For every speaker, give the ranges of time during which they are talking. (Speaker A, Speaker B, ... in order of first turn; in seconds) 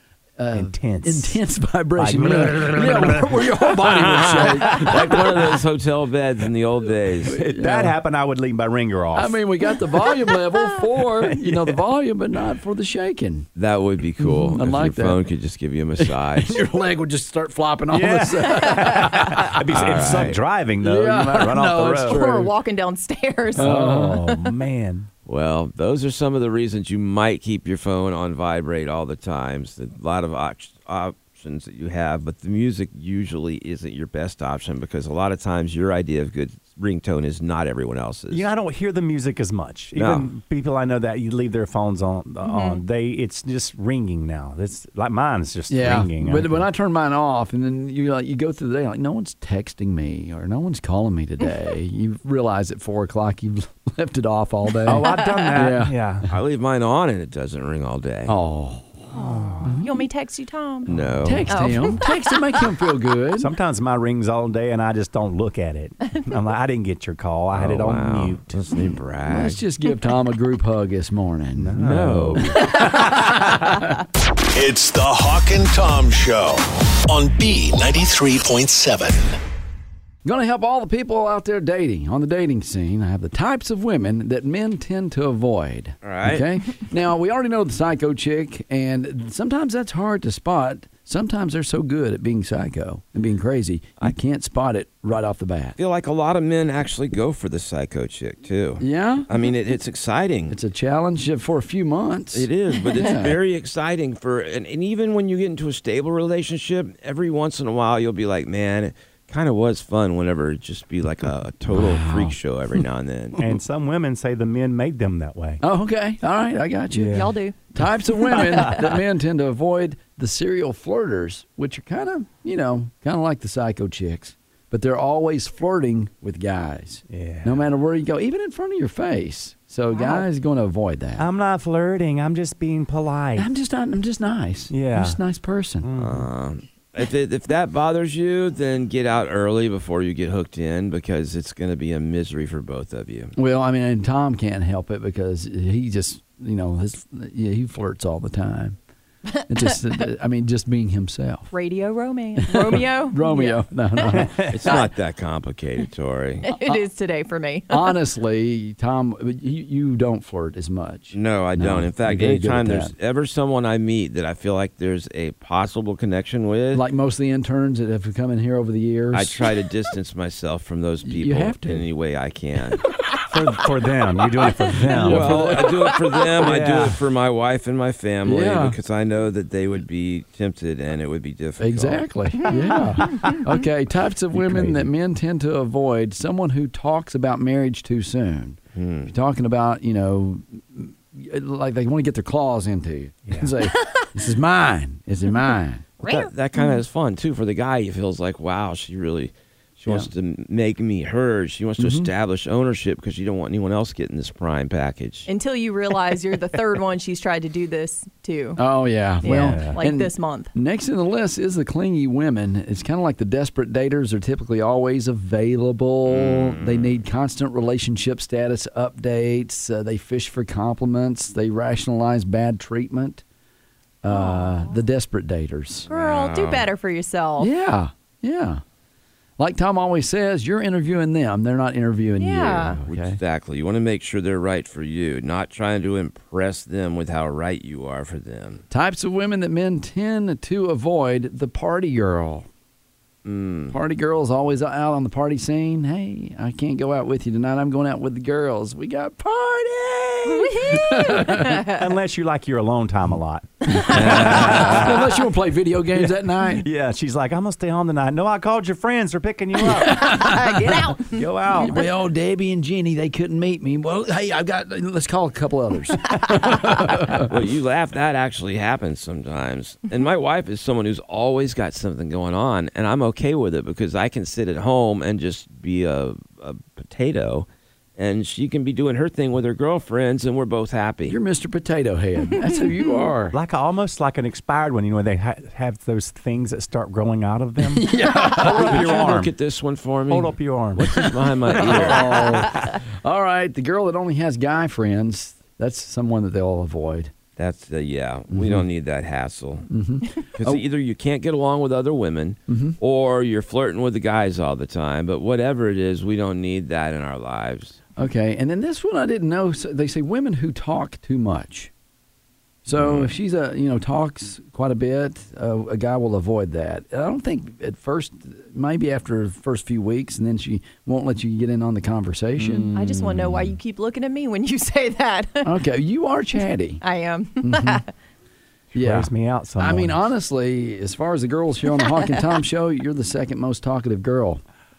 Speaker A: 0.4-5.4, 7.3-7.9, 9.1-13.5, 14.2-15.2, 16.0-19.5, 20.8-22.5, 23.6-24.2, 45.7-55.9, 58.3-59.1, 59.6-60.0, 61.2-63.5, 69.2-71.8, 80.2-95.8, 98.8-99.3, 100.5-103.3, 111.7-112.3, 115.6-117.2, 117.7-131.2, 133.4-135.9, 143.3-148.8, 149.5-151.5, 152.4-154.5, 157.7-162.9, 166.7-169.4, 171.0-171.8, 174.8-175.9, 178.2-178.8, 181.6-195.9, 201.8-202.1, 208.6-223.2, 224.0-225.9, 227.4-228.6, 229.4-233.2, 238.7-242.5, 243.7-251.5, 253.7-256.6, 259.8-260.6, 261.6-267.3, 281.1-283.4, 287.7-288.9, 291.5-297.1, 298.3-298.6, 299.7-300.6, 302.5-302.8, 308.0-311.7, 312.6-322.7, 325.4-326.8, 327.4-327.8, 328.7-334.4
Speaker B: 0.5-1.4, 1.9-3.6, 7.3-9.4, 11.1-11.8, 17.9-22.2, 23.5-25.1, 38.3-46.7, 54.9-56.3, 59.1-59.7, 63.4-68.6, 71.5-73.2, 113.4-115.6, 116.9-117.3, 118.4-118.9, 127.1-127.7, 131.2-133.5, 134.7-135.2, 135.8-136.3, 154.1-154.6, 173.3-175.6, 176.4-177.0, 183.0-183.4, 184.3-184.9, 209.2-209.8, 251.4-255.1, 255.9-260.3, 261.0-261.8, 283.3-289.3, 290.1-292.4, 322.4-323.4, 328.7-330.1
Speaker C: 3.8-7.3, 13.6-16.6, 19.7-20.4, 25.2-38.5, 39.9-40.3, 56.3-58.3, 60.9-61.5, 67.5-69.6, 71.8-72.6, 86.0-86.5, 95.8-100.6, 102.3-113.4, 136.0-143.3, 154.5-156.5, 161.1-166.8, 169.1-172.8, 174.9-182.1, 188.7-189.1, 196.0-205.3, 216.1-216.9, 225.9-226.7, 232.8-238.6, 243.2-243.8, 253.9-255.0, 267.1-281.2, 288.4-292.5, 297.4-299.7, 300.3-307.8, 312.8-313.1
Speaker D: 22.1-23.7, 42.4-42.8, 55.0-55.6, 59.1-60.9, 61.5-62.9, 72.7-73.1, 117.0-117.6, 129.9-130.2, 151.5-154.8, 156.4-158.0, 182.4-183.4, 196.0-196.8, 205.3-208.6, 209.2-210.5, 224.1-224.8, 225.9-227.5, 232.2-232.8, 250.3-251.8, 259.8-261.9, 282.5-283.1, 322.7-325.6, 326.8-327.9
Speaker E: 74.5-79.4